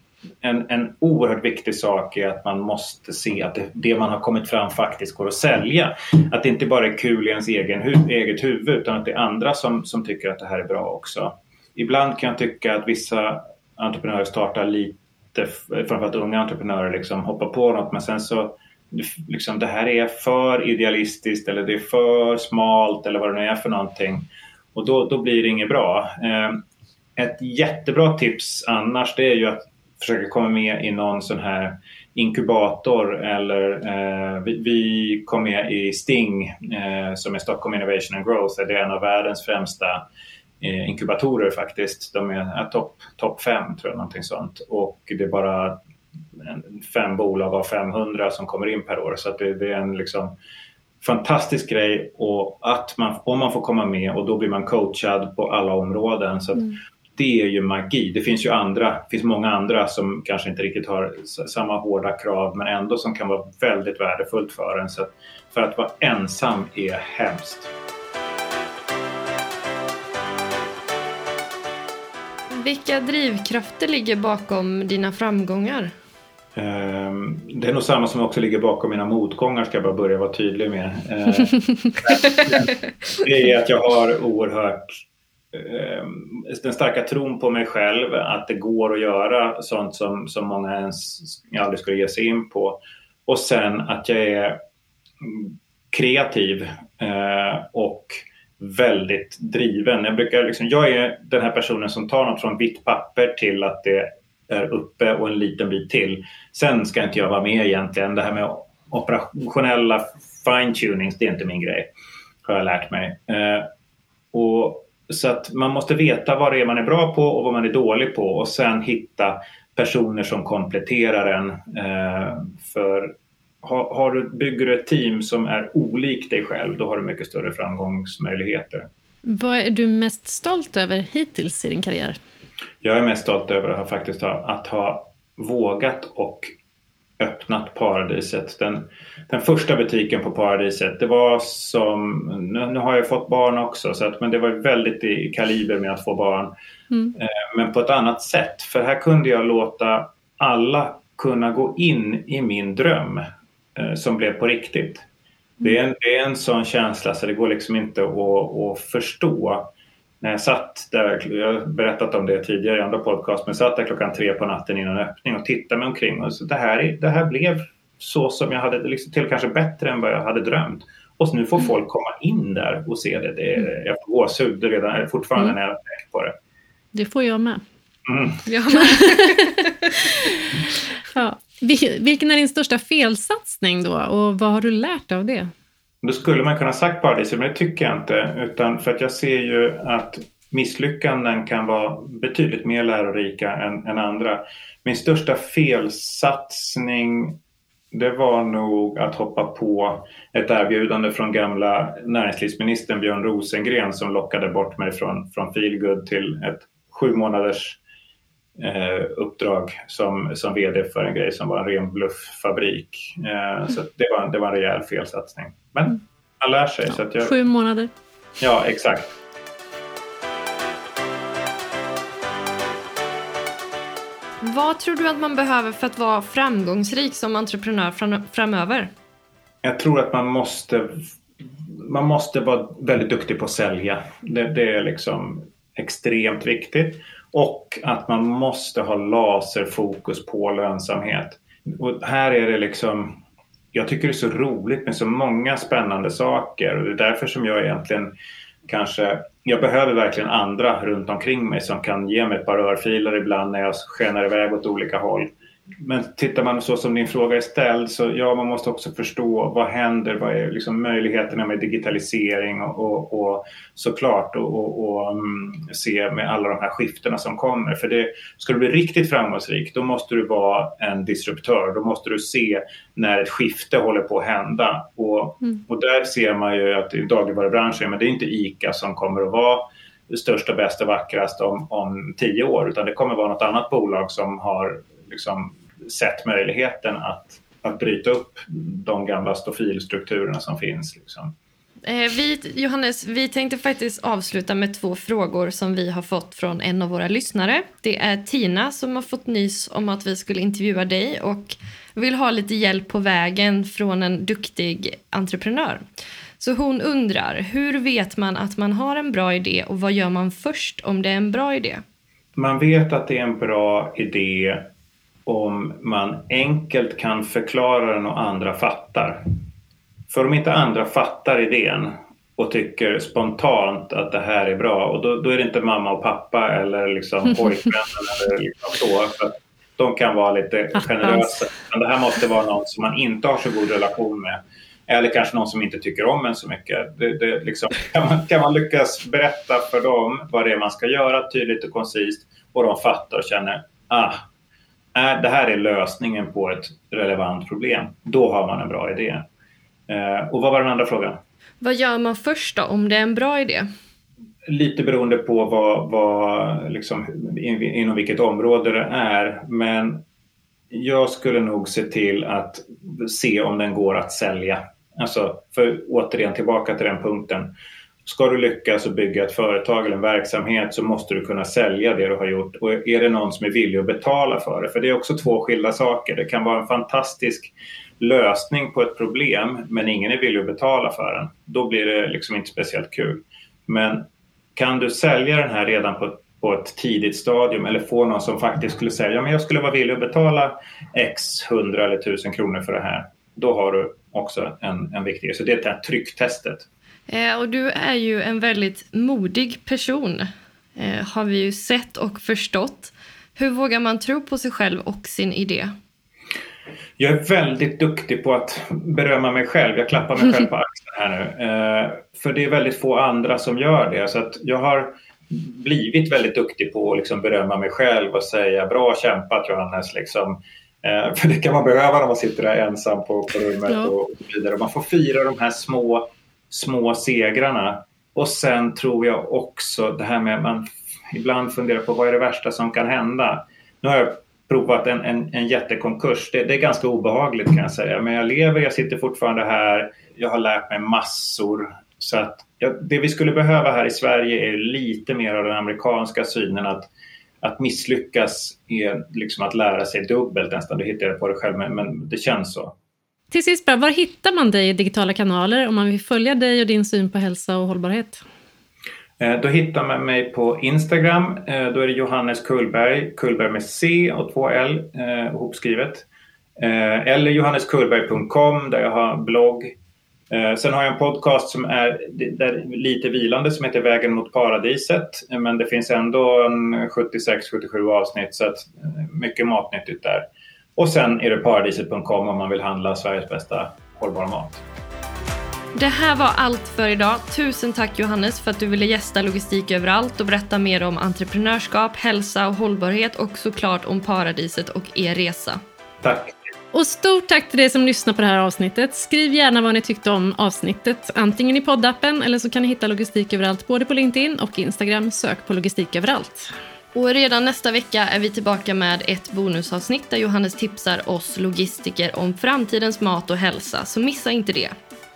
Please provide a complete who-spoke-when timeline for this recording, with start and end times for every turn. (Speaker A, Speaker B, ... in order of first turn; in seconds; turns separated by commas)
Speaker A: 0.4-26.6, Speaker A: 27.1-40.0, Speaker A: 40.6-45.8, Speaker A: 46.4-50.3, Speaker A: 51.0-67.7, Speaker B: 72.5-75.9, Speaker A: 76.5-85.0, Speaker A: 85.5-94.6, Speaker A: 95.2-111.9, Speaker A: 112.4-113.7, Speaker A: 114.3-128.9, Speaker C: 129.2-132.2, Speaker A: 132.8-136.5, Speaker A: 137.2-146.5, Speaker A: 147.2-155.0, Speaker A: 155.6-159.7, Speaker A: 160.2-176.3, Speaker C: 176.9-177.6, Speaker A: 178.1-178.4, Speaker B: 178.5-179.7, Speaker C: 178.7-179.7, Speaker C: 180.3-185.5, Speaker A: 186.0-197.4, Speaker A: 197.9-207.8, Speaker A: 208.6-217.3, Speaker C: 216.9-217.9, Speaker A: 218.4-219.1, Speaker B: 224.4-228.9, Speaker A: 229.6-243.2, Speaker A: 243.7-248.1, Speaker A: 248.7-291.3, Speaker B: 291.8-305.8, Speaker B: 306.4-311.8, Speaker A: 312.4-314.7, Speaker A: 315.2-319.3, Speaker A: 320.1-344.2, Speaker A: 344.9-349.2, Speaker A: 349.9-351.2, Speaker B: 351.6-353.7, Speaker A: 354.5-360.0, Speaker A: 360.7-367.5, Speaker A: 368.0-384.0, Speaker A: 384.6-396.6, Speaker B: 397.1-405.7, Speaker A: 407.0-446.9, Speaker A: 447.4-452.7, Speaker C: 453.3-458.2, Speaker A: 459.2-466.1, Speaker A: 466.6-469.7, Speaker A: 470.3-480.2, Speaker A: 480.8-484.6, Speaker B: 485.7-495.6, Speaker A: 496.0-496.4, Speaker C: 496.7-506.5, Speaker B: 506.9-514.7